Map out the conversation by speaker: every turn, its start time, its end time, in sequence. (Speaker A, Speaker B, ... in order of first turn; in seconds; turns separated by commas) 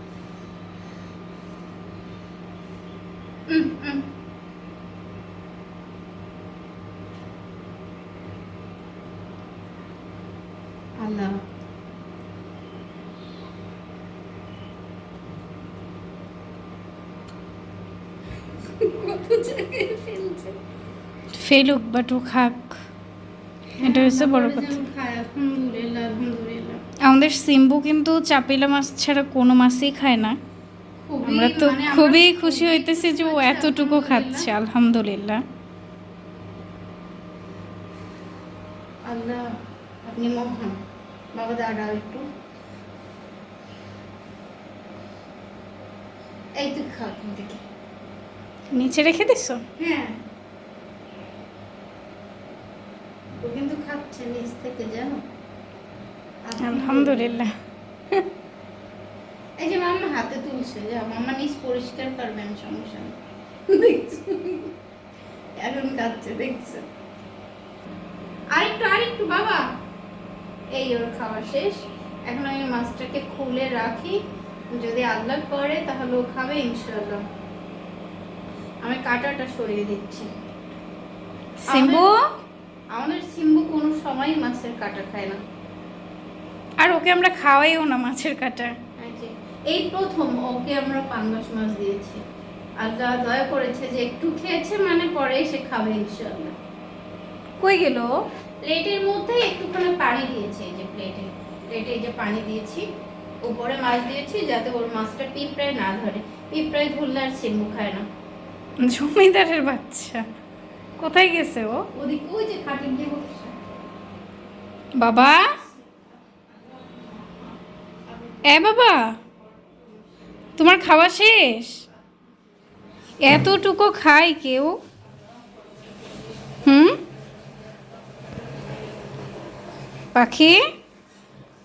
Speaker A: 3.5-4.0, Speaker A: 11.0-11.4, Speaker A: 18.6-20.6, Speaker B: 21.3-22.8, Speaker B: 23.8-24.8, Speaker A: 23.8-26.8, Speaker B: 27.0-30.4, Speaker A: 31.0-34.5, Speaker B: 31.2-35.4, Speaker A: 39.0-39.5, Speaker A: 40.0-40.8, Speaker A: 41.3-42.2, Speaker A: 46.6-47.6, Speaker B: 48.7-49.6, Speaker A: 49.8-50.1, Speaker A: 53.4-55.2, Speaker A: 56.5-57.4, Speaker B: 56.6-57.5, Speaker A: 59.6-63.1, Speaker A: 63.7-64.7, Speaker A: 65.6-66.8, Speaker A: 68.5-69.7, Speaker A: 70.7-74.2, Speaker A: 74.7-77.2, Speaker A: 78.8-80.3, Speaker B: 81.6-82.2, Speaker A: 81.7-82.1, Speaker A: 82.9-85.4, Speaker B: 86.8-88.7, Speaker A: 89.0-92.2, Speaker A: 92.8-96.5, Speaker B: 97.6-98.1, Speaker A: 98.6-102.8, Speaker A: 103.4-108.0, Speaker B: 108.8-110.2, Speaker B: 111.0-111.8, Speaker A: 111.9-113.5, Speaker B: 115.0-115.5, Speaker B: 118.4-119.1, Speaker B: 120.6-121.8, Speaker B: 123.2-124.8, Speaker B: 126.6-127.0, Speaker B: 130.1-130.6